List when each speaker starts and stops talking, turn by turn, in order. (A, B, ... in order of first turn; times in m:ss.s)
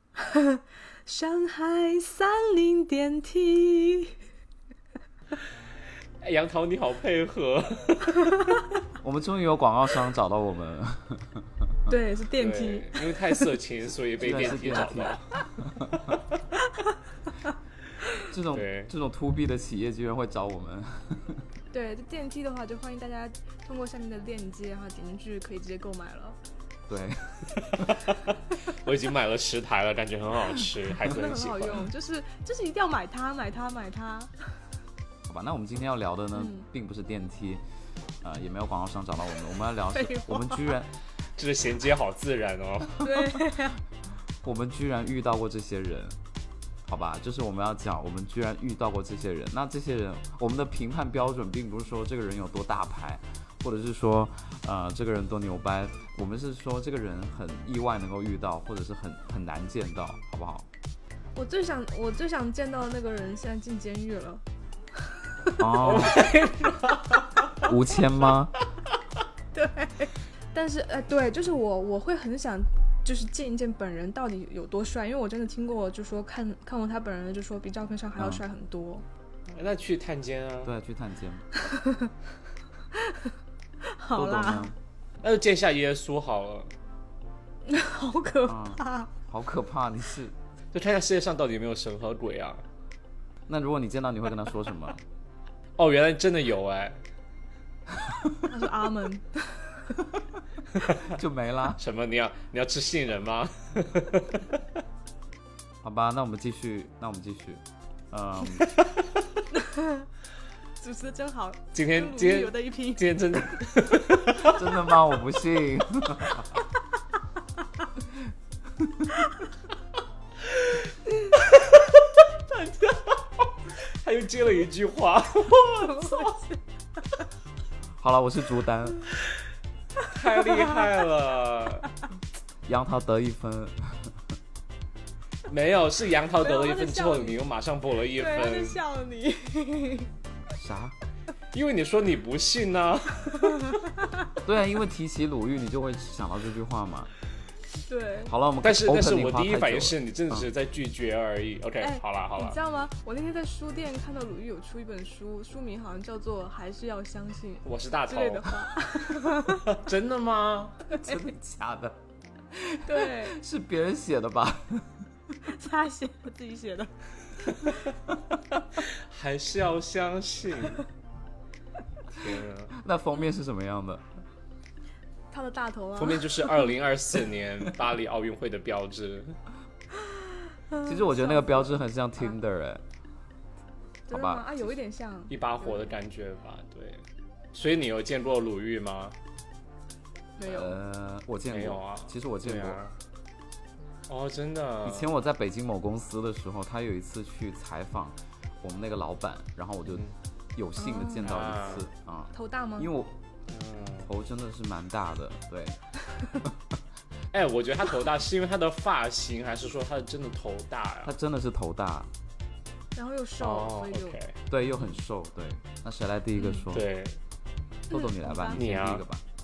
0:00.2-0:04.1 A
0:06.2-0:08.2 B
0:09.0-0:11.8 C
0:11.9-0:13.4 A
0:12.4-0:15.4 B
0:14.2-0:15.9 C
0:15.9-0:16.4 B
0:18.2-0:21.4 C
0:18.5-0:18.9 B
0:21.7-0:26.4 A
0:26.9-0:28.1 C
0:28.6-0:31.9 B
0:31.0-0:34.3 A
0:35.3-0:37.6 C
0:36.3-0:36.7 A
0:38.2-0:40.9 C
0:39.9-0:40.8 A
0:41.4-0:43.1 B
0:43.0-0:43.8 A
0:44.4-0:46.2 C
0:46.9-1:00.7 C
1:01.4-1:04.4 A
1:05.0-1:05.6 A
1:05.6-1:06.2 C
1:05.8-1:07.5 B
1:07.6-1:08.5 C
1:09.5-1:19.0 A
1:18.2-1:18.4 C
1:19.5-1:20.7 B
1:20.6-1:21.4 C
1:21.6-1:22.1 A
1:22.9-1:23.3 A
1:23.8-1:24.7 A
1:24.2-1:24.8 C
1:25.2-1:26.7 B
1:27.7-1:29.1 A
1:28.5-1:30.3 C
1:30.7-1:32.6 B
1:33.5-1:35.0 C
1:35.8-1:37.0 B
1:38.0-1:38.3 C
1:38.4-1:40.0 A
1:40.8-1:41.1 B
1:41.1-1:41.8 C
1:41.8-1:44.6 B
1:45.8-1:48.7 C
1:48.8-1:49.4 B
1:49.5-1:50.1 A
1:50.8-1:53.1 A
1:51.7-1:54.6 B
1:54.4-1:56.5 C
1:58.8-1:59.1 C
2:00.5-2:03.5 B
2:04.0-2:06.4 B
2:05.9-2:06.6 A
2:08.0-2:09.0 C
2:10.0-2:11.9 B
2:12.6-2:14.2 C
2:15.5-2:18.8 B
2:16.4-2:17.4 A
2:18.1-2:20.1 A
2:20.5-2:20.9 C
2:21.5-2:23.8 B
2:24.4-2:27.1 C
2:27.9-2:28.3 A
2:28.2-2:30.5 C
2:28.6-2:32.6 B
2:31.8-2:39.8 A
2:37.6-2:38.5 B
2:39.3-2:40.8 B
2:41.0-2:42.0 C
2:42.5-2:45.1 C
2:42.9-2:43.4 A
2:45.4-2:46.9 A
2:47.4-2:47.7 A
2:47.5-2:47.8 B
2:48.7-2:50.8 B
2:52.1-2:52.7 B
2:52.7-2:54.1 C
2:55.3-2:56.5 A
2:56.0-2:59.3 B
3:00.7-3:01.7 A
3:00.8-3:02.8 C
3:04.1-3:05.9 A
3:04.1-3:04.7 C
3:05.3-3:07.0 B
3:07.5-3:09.2 B
3:10.4-3:10.8 A
3:10.4-3:12.8 C
3:11.5-3:12.9 B
3:14.1-3:15.1 B
3:14.8-3:23.2 C
3:20.8-3:21.3 A
3:21.2-3:21.9 B
3:22.3-3:22.9 A
3:23.5-3:24.1 B
3:24.0-3:25.8 C
3:27.3-3:31.1 B
3:31.0-3:32.1 C
3:32.9-3:34.2 A
3:33.4-3:34.3 B
3:34.5-3:36.9 C
3:36.4-3:36.6 A
3:36.7-3:37.2 B
3:37.9-3:38.6 A
3:37.9-3:39.2 C
3:38.5-3:39.0 B